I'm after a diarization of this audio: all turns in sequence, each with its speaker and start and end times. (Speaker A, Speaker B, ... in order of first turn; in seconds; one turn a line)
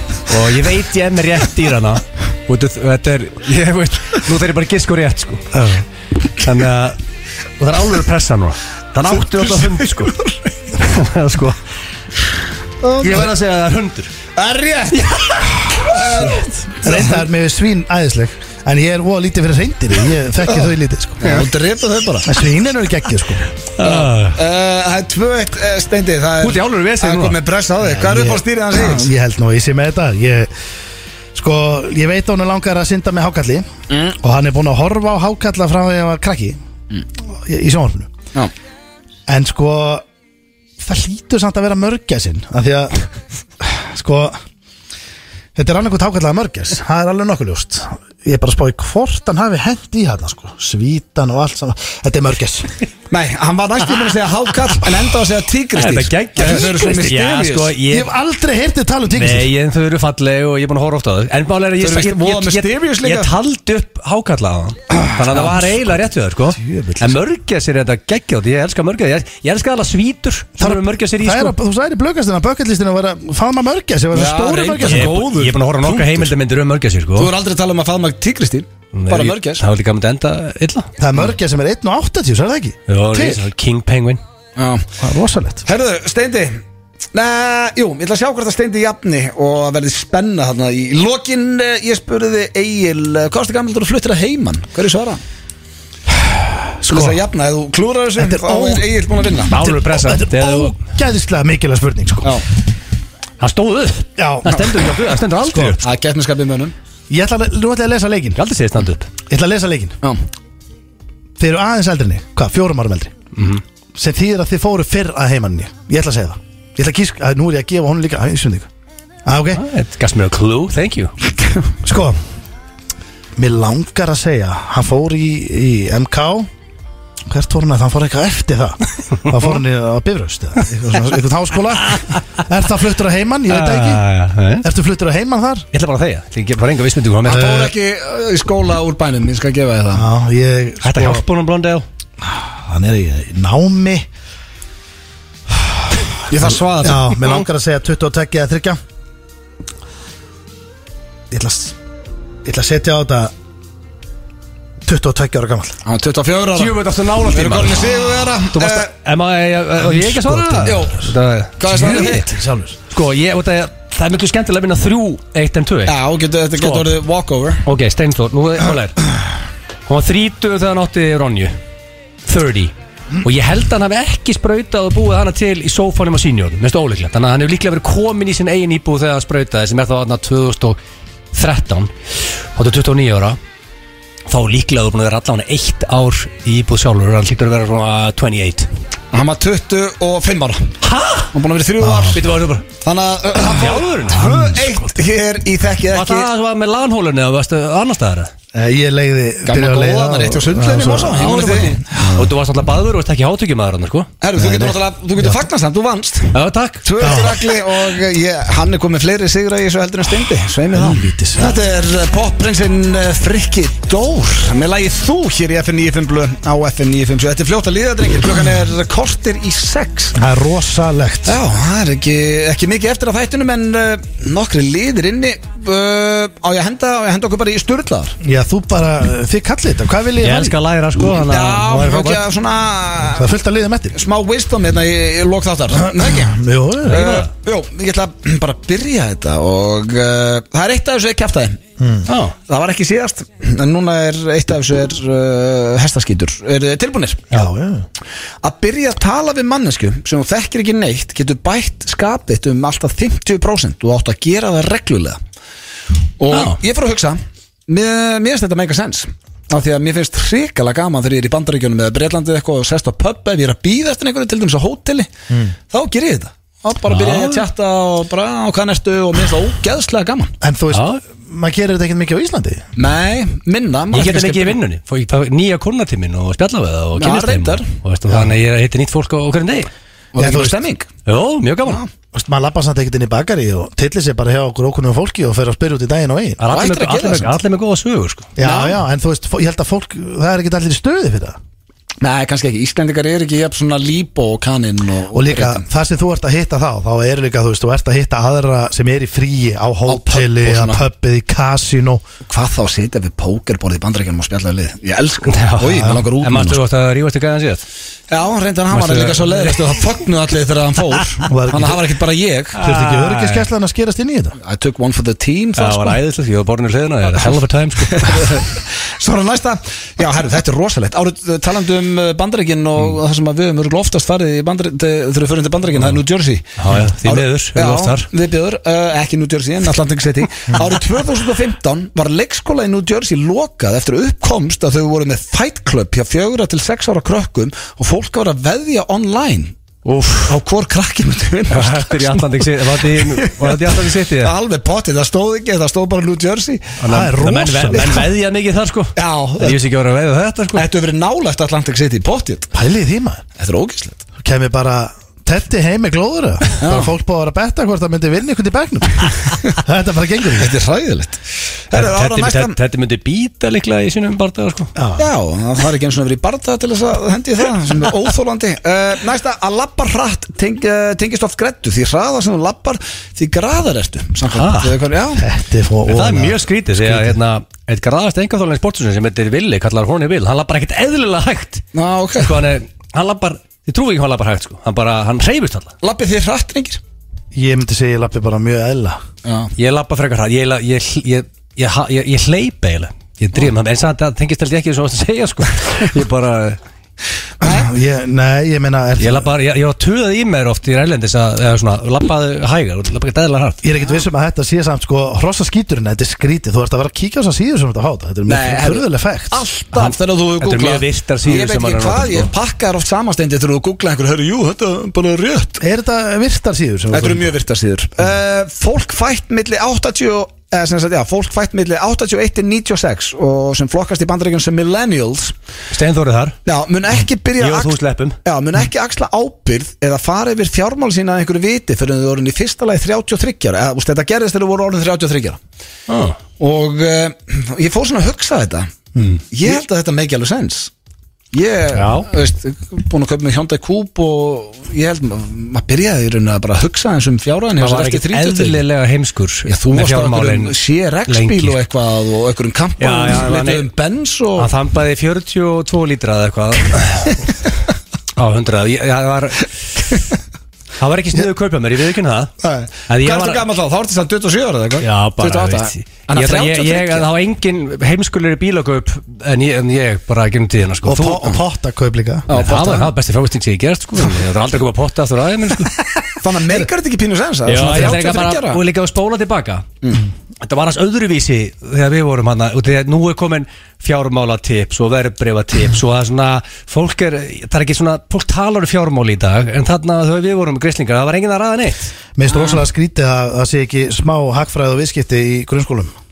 Speaker A: 0.3-5.6
Speaker B: 5.5-5.8
Speaker A: 6.4-7.0
Speaker A: 7.6-10.2
Speaker C: 9.4-10.3
Speaker A: 10.7-11.6
Speaker C: 12.8-13.3
Speaker A: 13.0-14.1
Speaker C: 14.3-17.2
Speaker A: 14.9-15.5
Speaker B: 16.8-21.4
Speaker C: 21.2-22.3
Speaker B: 22.2-23.4
Speaker A: 23.8-24.4
Speaker C: 23.8-29.1
Speaker A: 26.4-27.4
Speaker B: 27.8-30.5
Speaker B: 31.3-33.7
Speaker C: 33.9-34.1
Speaker B: 34.2-36.6
Speaker B: 37.3-38.1
Speaker B: 39.3-40.0
Speaker B: 40.8-43.0
Speaker B: 43.6-44.4
Speaker B: 45.5-52.7
Speaker C: 53.1-57.8
Speaker A: 55.7-58.1
Speaker B: 57.9-59.5
Speaker A: 59.1-71.5
Speaker C: 61.8-63.3
Speaker B: 66.5-67.2
Speaker B: 70.6-75.3
Speaker C: 74.1-76.3
Speaker A: 74.8-77.3
Speaker C: 77.2-79.6
Speaker A: 78.9-80.9
Speaker B: 81.0-83.4
Speaker A: 82.9-84.2
Speaker C: 84.6-84.9
Speaker B: 85.0-85.6
Speaker C: 85.7-86.6
Speaker C: 87.1-95.2
Speaker B: 96.4-97.2
Speaker C: 96.9-99.5
Speaker B: 98.2-98.9
Speaker A: 99.5-100.8
Speaker B: 99.5-102.4
Speaker A: 103.4-105.8
Speaker B: 104.2-105.8
Speaker C: 105.8-106.7
Speaker B: 107.1-108.4
Speaker A: 108.3-109.1
Speaker B: 109.3-110.0
Speaker B: 111.4-113.1
Speaker A: 113.3-113.6
Speaker B: 113.9-118.7
Speaker B: 119.2-119.6
Speaker A: 119.5-121.1
Speaker B: 121.8-122.2
Speaker B: 123.3-126.5
Speaker B: 127.3-134.0
Speaker A: 133.5-134.6
Speaker B: 134.6-135.7
Speaker A: 135.7-137.7
Speaker C: 137.2-140.1
Speaker B: 137.3-137.7
Speaker B: 139.9-141.2
Speaker A: 140.8-141.8
Speaker B: 142.2-144.1
Speaker B: 145.5-148.8
Speaker C: 146.3-147.3
Speaker B: 151.3-151.8
Speaker B: 152.4-153.3
Speaker B: 154.8-155.8
Speaker C: 155.8-158.9
Speaker A: 156.5-162.2
Speaker B: 159.8-160.9
Speaker C: 160.6-161.1
Speaker C: 161.6-162.3
Speaker B: 161.7-162.8
Speaker A: 162.9-165.9
Speaker C: 165.9-167.6
Speaker A: 166.6-166.9
Speaker A: 167.6-169.0
Speaker A: 169.9-171.5
Speaker A: 172.2-180.8
Speaker A: 181.3-181.9
Speaker A: 182.5-183.4
Speaker A: 184.3-188.7
Speaker C: 189.1-190.7
Speaker A: 190.8-191.3
Speaker C: 191.3-196.3
Speaker B: 191.8-192.2
Speaker A: 192.1-192.6
Speaker A: 193.5-194.7
Speaker B: 194.2-194.6
Speaker A: 195.9-198.3
Speaker B: 198.5-201.6
Speaker C: 199.4-202.2
Speaker A: 201.1-204.1
Speaker C: 204.2-220.2
Speaker B: 204.3-205.3
Speaker A: 206.3-206.9
Speaker B: 207.0-207.4
Speaker B: 210.7-211.6
Speaker B: 220.2-221.4
Speaker C: 221.2-228.2
Speaker B: 228.2-230.6
Speaker A: 230.2-232.2
Speaker C: 231.2-233.3
Speaker B: 233.1-234.0
Speaker C: 233.9-241.6
Speaker B: 235.7-237.1
Speaker A: 236.8-237.3
Speaker B: 241.8-242.1
Speaker A: 242.1-242.3
Speaker C: 242.5-247.4
Speaker B: 247.3-247.8
Speaker C: 248.4-255.2
Speaker C: 256.2-265.1
Speaker A: 256.3-256.6
Speaker C: 265.7-270.3
Speaker A: 266.9-267.4
Speaker B: 270.4-272.6
Speaker A: 270.7-271.0
Speaker C: 272.8-274.6
Speaker A: 273.9-279.7
Speaker C: 277.0-277.7
Speaker C: 280.1-280.9
Speaker B: 280.2-280.6
Speaker A: 281.0-281.8
Speaker B: 282.1-286.4
Speaker A: 286.4-288.3
Speaker C: 286.5-287.4
Speaker B: 288.4-291.4
Speaker C: 288.4-288.8
Speaker C: 292.0-295.6
Speaker B: 295.1-302.0
Speaker C: 299.9-300.8
Speaker C: 302.2-306.6
Speaker A: 305.3-307.6
Speaker C: 308.1-312.6
Speaker A: 308.7-309.8
Speaker B: 311.3-311.8
Speaker A: 312.5-313.4
Speaker B: 312.6-314.4
Speaker C: 314.4-316.0
Speaker A: 315.6-318.4
Speaker C: 317.9-339.5
Speaker A: 326.6-328.1
Speaker A: 339.8-340.4
Speaker C: 340.3-346.8
Speaker A: 341.5-344.3
Speaker A: 346.8-350.6
Speaker B: 346.9-348.0
Speaker C: 348.9-349.6
Speaker C: 350.5-352.5
Speaker B: 352.5-353.2
Speaker C: 353.4-354.0
Speaker B: 354.2-360.5
Speaker C: 356.6-356.9
Speaker C: 360.4-362.6
Speaker A: 361.7-364.7
Speaker B: 364.8-365.1
Speaker C: 365.0-375.2
Speaker A: 374.3-374.8
Speaker B: 375.2-377.2
Speaker A: 375.9-381.6
Speaker C: 381.7-382.4
Speaker A: 382.2-385.7
Speaker C: 385.8-386.8
Speaker B: 387.3-389.0
Speaker C: 389.2-389.5
Speaker A: 389.6-396.6
Speaker C: 397.4-397.7
Speaker B: 397.4-399.3
Speaker A: 399.0-403.6
Speaker B: 403.6-409.4
Speaker C: 408.3-415.6
Speaker A: 409.7-412.3
Speaker B: 415.6-417.3
Speaker C: 416.9-425.3
Speaker A: 425.7-426.4
Speaker C: 426.4-435.4
Speaker A: 427.4-428.2
Speaker A: 435.9-436.2
Speaker C: 436.4-438.7
Speaker A: 439.0-439.2
Speaker C: 439.3-440.7
Speaker C: 441.3-448.6
Speaker A: 441.7-442.1
Speaker A: 447.6-450.6
Speaker C: 449.4-454.5
Speaker A: 451.1-451.6
Speaker A: 452.8-453.7
Speaker A: 454.4-457.3
Speaker A: 458.1-459.5
Speaker A: 460.8-462.3
Speaker C: 462.4-467.1
Speaker A: 462.9-463.4
Speaker A: 464.8-471.2
Speaker B: 470.8-472.2
Speaker C: 472.3-472.9
Speaker A: 472.3-475.7
Speaker C: 476.2-478.6
Speaker A: 477.4-479.6
Speaker A: 480.4-491.9
Speaker B: 492.1-495.9
Speaker C: 492.3-492.6